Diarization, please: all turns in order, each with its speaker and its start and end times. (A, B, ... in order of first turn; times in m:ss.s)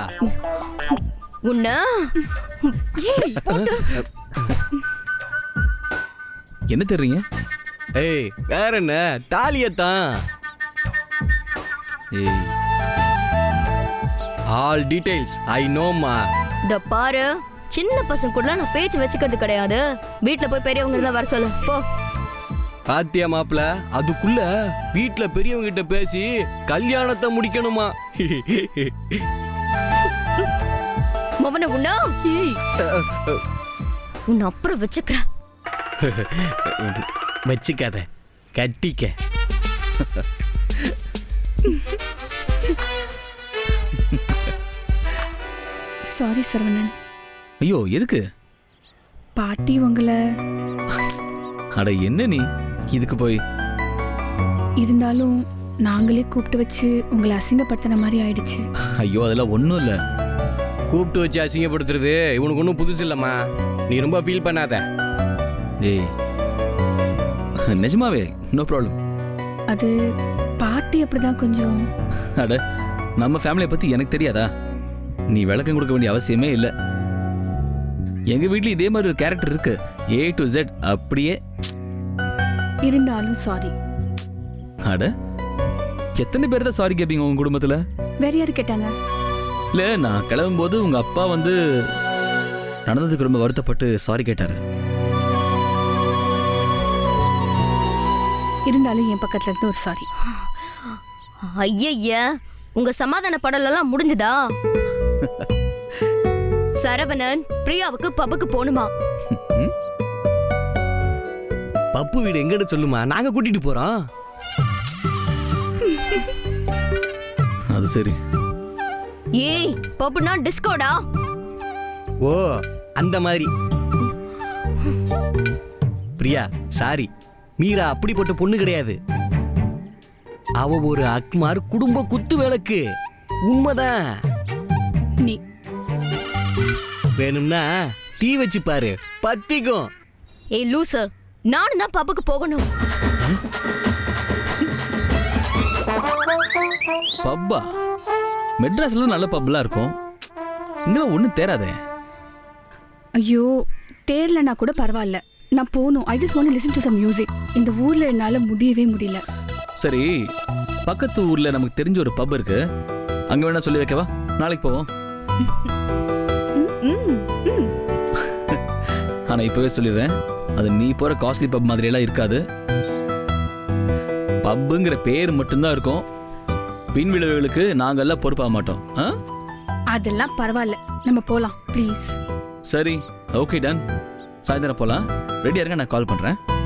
0:00.2-0:04.0 A
0:03.0-0:03.4 B
0:03.6-0:04.0 C
0:06.7-0:07.2 D
0:08.0-0:10.0 C
0:12.1-0:12.5 D
0:14.5-0:16.2 C
0:16.7-0:21.8 A
0:22.9-0:29.3 C
0:31.4-0:32.1 A
0:32.2-0:32.6 B
0:32.8-0:33.4 C
0:34.3-0:35.2 A
0:36.0-0:39.1 C
0:46.1-0:46.9 B
0:47.6-0:48.2 D
0:49.4-0:50.2 B
0:51.8-0:53.4 D
0:54.8-0:58.6 B
0:59.0-1:00.0 D
1:00.9-1:03.4 C
1:03.9-1:04.8 C
1:05.8-1:06.1 D
1:07.7-1:09.0 D
1:09.7-1:09.9 B
1:10.6-1:11.8 B
1:13.2-1:14.5 D
1:15.3-1:16.7 D
1:18.3-1:21.4 D
1:22.8-1:23.7 B
1:24.8-1:25.1 D
1:26.2-1:27.8 D
1:28.2-1:28.9 B
1:29.7-1:31.6 D
1:32.9-1:34.6 D
1:38.7-1:40.1 B
1:40.2-1:42.2 A
1:42.8-1:44.4 A
1:46.8-1:48.9 A
1:49.3-1:49.7 D
1:51.9-1:53.9 C
1:57.7-1:58.2 D
1:59.4-2:01.0 A
2:02.2-2:03.5 C
2:06.2-2:09.0 C
2:10.6-2:12.8 C
2:13.4-2:14.0 C
2:17.2-2:19.9 C
2:20.5-2:22.7 A
2:27.2-2:27.6 D
2:28.6-2:29.9 D
2:30.9-2:31.8 D
2:33.2-2:33.5 B
2:34.0-2:39.2 B
2:39.8-2:40.1 D
2:40.9-2:42.6 D
2:43.3-2:44.8 D
2:46.6-2:47.7 B
2:48.2-2:48.6 D
2:49.3-2:52.4 D
2:54.4-2:56.0 D
2:56.9-2:59.1 D
2:59.9-3:02.2 B
3:02.7-3:03.8 D
3:04.4-3:06.4 D